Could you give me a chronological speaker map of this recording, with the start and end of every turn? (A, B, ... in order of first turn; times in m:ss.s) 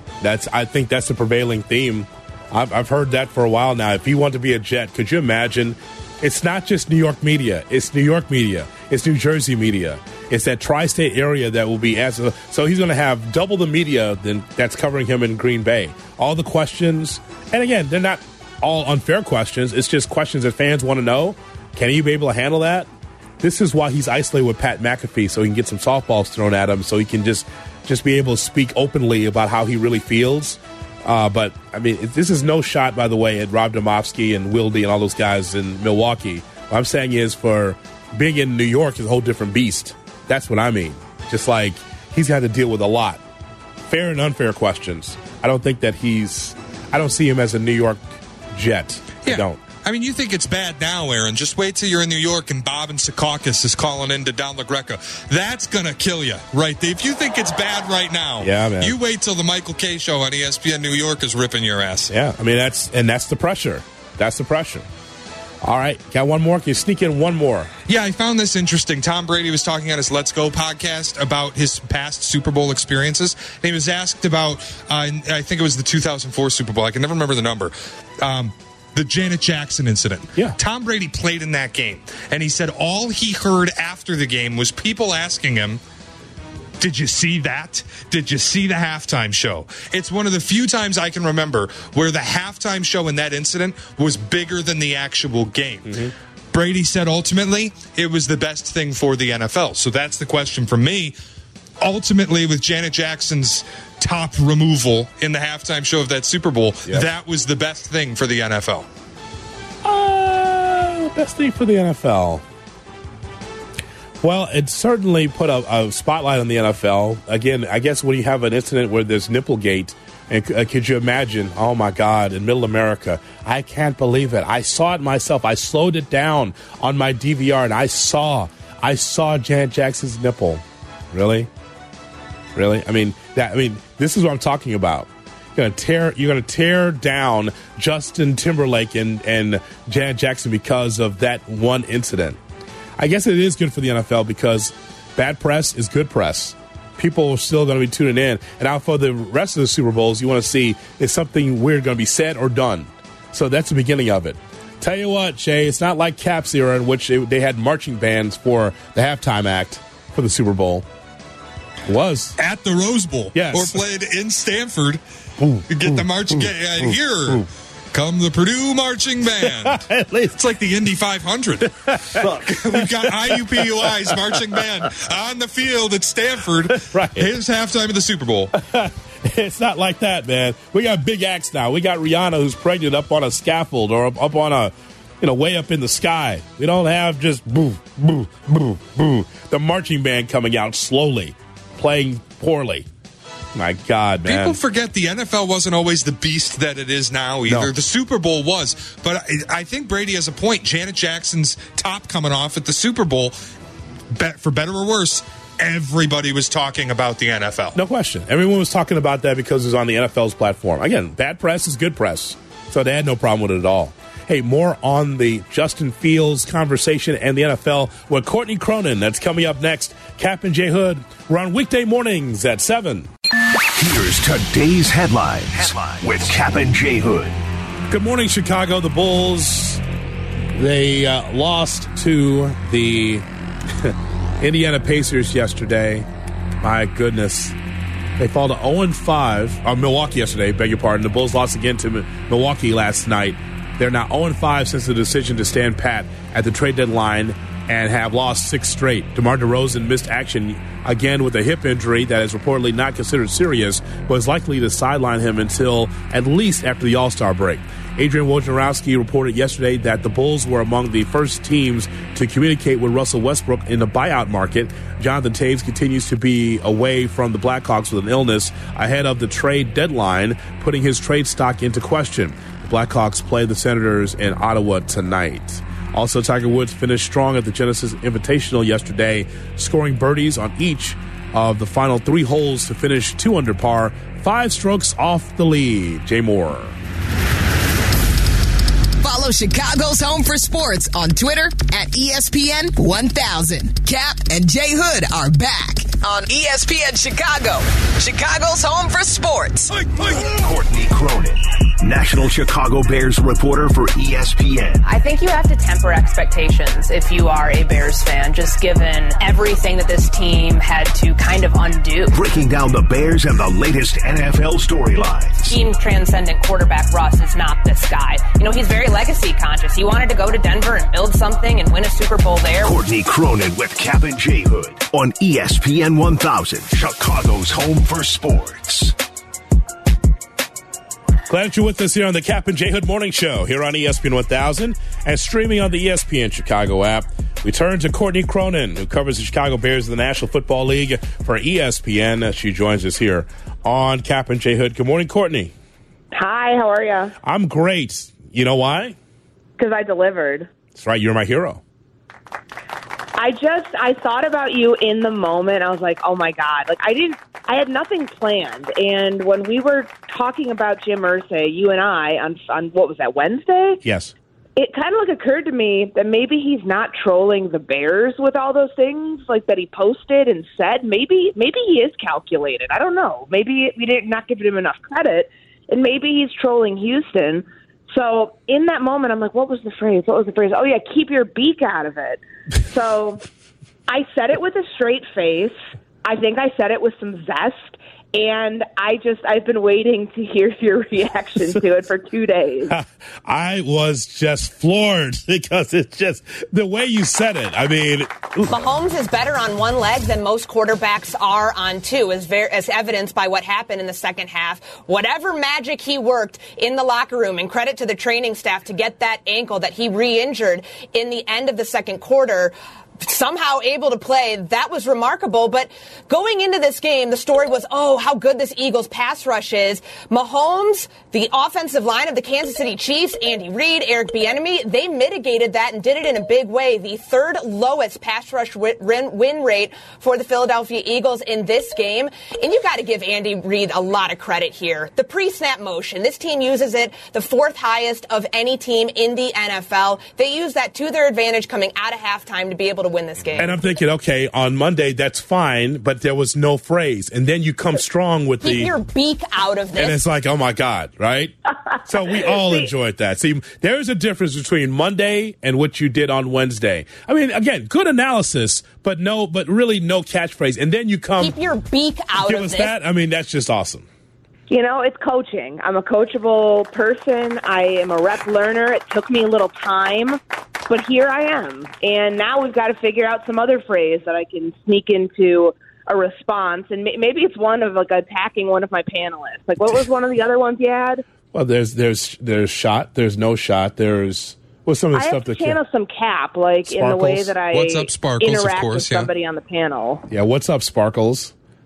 0:00.2-0:22.9 A
0:23.4-0:43.2 A
0:43.9-0:49.6 A
0:49.2-1:02.1 B
0:58.4-0:58.9 A
1:02.1-1:04.8 A
1:05.6-1:07.7 A
1:07.9-1:25.8 B
1:26.8-1:36.0 B
1:35.8-1:36.1 A
1:36.5-1:41.2 B
1:41.8-1:48.9 B
1:49.8-1:52.4 A
1:54.2-2:11.5 A
2:12.5-2:22.4 A
2:23.0-2:40.8 A
2:41.8-2:42.4 A
2:42.4-2:45.0 B
2:43.3-2:43.8 A
2:45.4-2:47.4 A
2:45.7-2:58.5 B
2:49.4-2:50.4 A
2:51.6-2:54.8 A
2:56.7-2:57.3 A
2:58.5-3:12.8 A
3:13.5-3:14.6 A
3:14.2-3:23.4 B
3:24.1-3:27.8 B
3:27.7-3:43.1 A
3:43.8-3:47.4 C
3:47.9-3:49.8 A
3:50.5-3:53.2 A
3:53.8-3:56.1 A
3:56.6-3:57.6 A
3:58.2-4:46.8 A
4:49.0-4:59.7 D
4:59.8-5:04.8 C
5:04.8-5:12.2 E
5:12.1-5:15.6 C
5:15.4-5:22.7 E
5:22.6-5:28.9 C
5:31.3-5:45.5 A
5:46.1-5:47.1 E
5:47.2-5:48.9 A
5:49.6-5:50.5 E
5:50.7-5:51.6 A
5:53.2-6:03.8 E
6:03.8-6:04.1 A
6:04.6-6:23.2 E
6:23.9-6:32.7 E
6:32.7-6:38.7 A
6:38.5-7:23.5 F
7:23.3-7:28.8 A
7:28.4-7:30.0 F
7:29.8-7:41.4 A
7:41.2-7:42.7 F
7:42.2-7:43.8 A
7:44.5-8:01.0 E
8:01.3-8:05.6 A
8:04.9-8:10.0 E
8:06.6-8:07.3 A
8:07.5-8:09.1 B
8:10.1-8:11.3 A